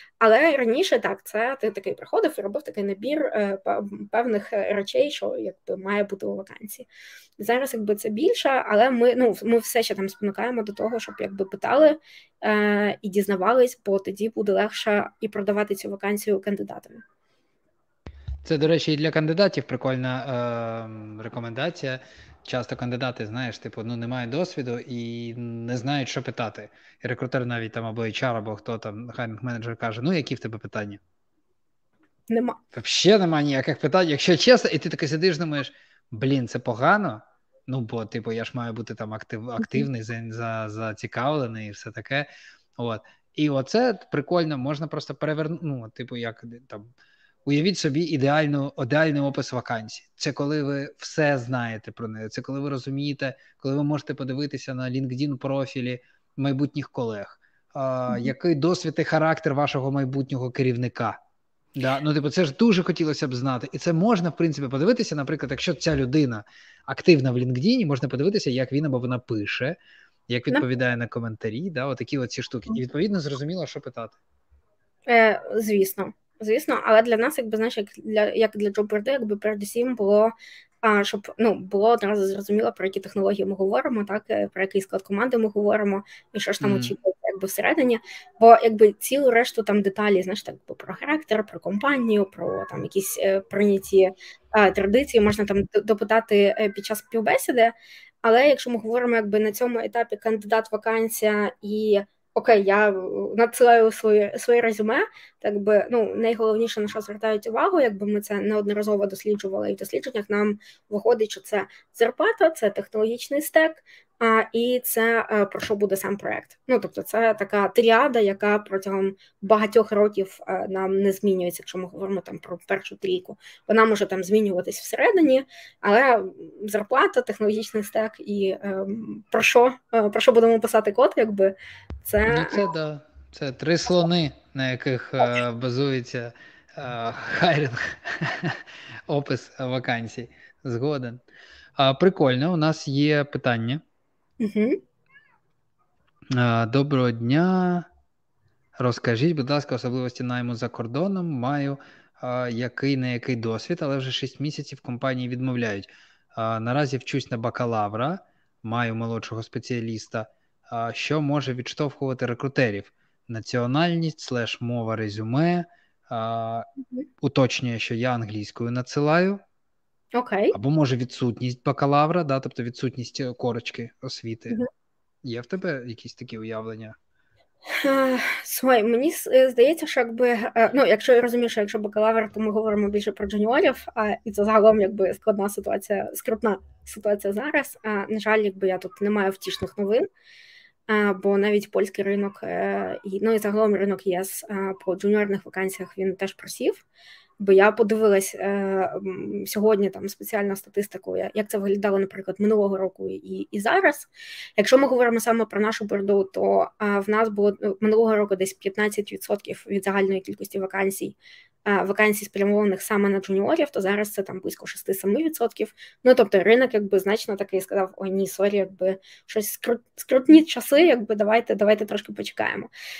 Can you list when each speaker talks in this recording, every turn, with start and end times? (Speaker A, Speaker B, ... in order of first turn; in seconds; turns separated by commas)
Speaker A: 0.2-6.9, Speaker A: 7.4-17.0, Speaker B: 18.4-31.0, Speaker A: 32.3-32.6, Speaker B: 32.7-46.9, Speaker A: 39.6-39.9, Speaker B: 47.5-61.2, Speaker A: 58.1-58.3, Speaker B: 61.8-69.8, Speaker B: 70.3-74.2, Speaker A: 75.1-132.6, Speaker B: 86.6-86.9, Speaker B: 132.2-141.2, Speaker B: 141.8-143.8, Speaker A: 144.4-144.8, Speaker B: 146.3-147.9, Speaker B: 148.8-166.7, Speaker B: 167.2-169.4, Speaker A: 170.1-170.5, Speaker B: 170.5-174.6, Speaker B: 175.2-176.9, Speaker A: 177.8-190.1, Speaker A: 190.9-196.8, Speaker A: 197.4-222.7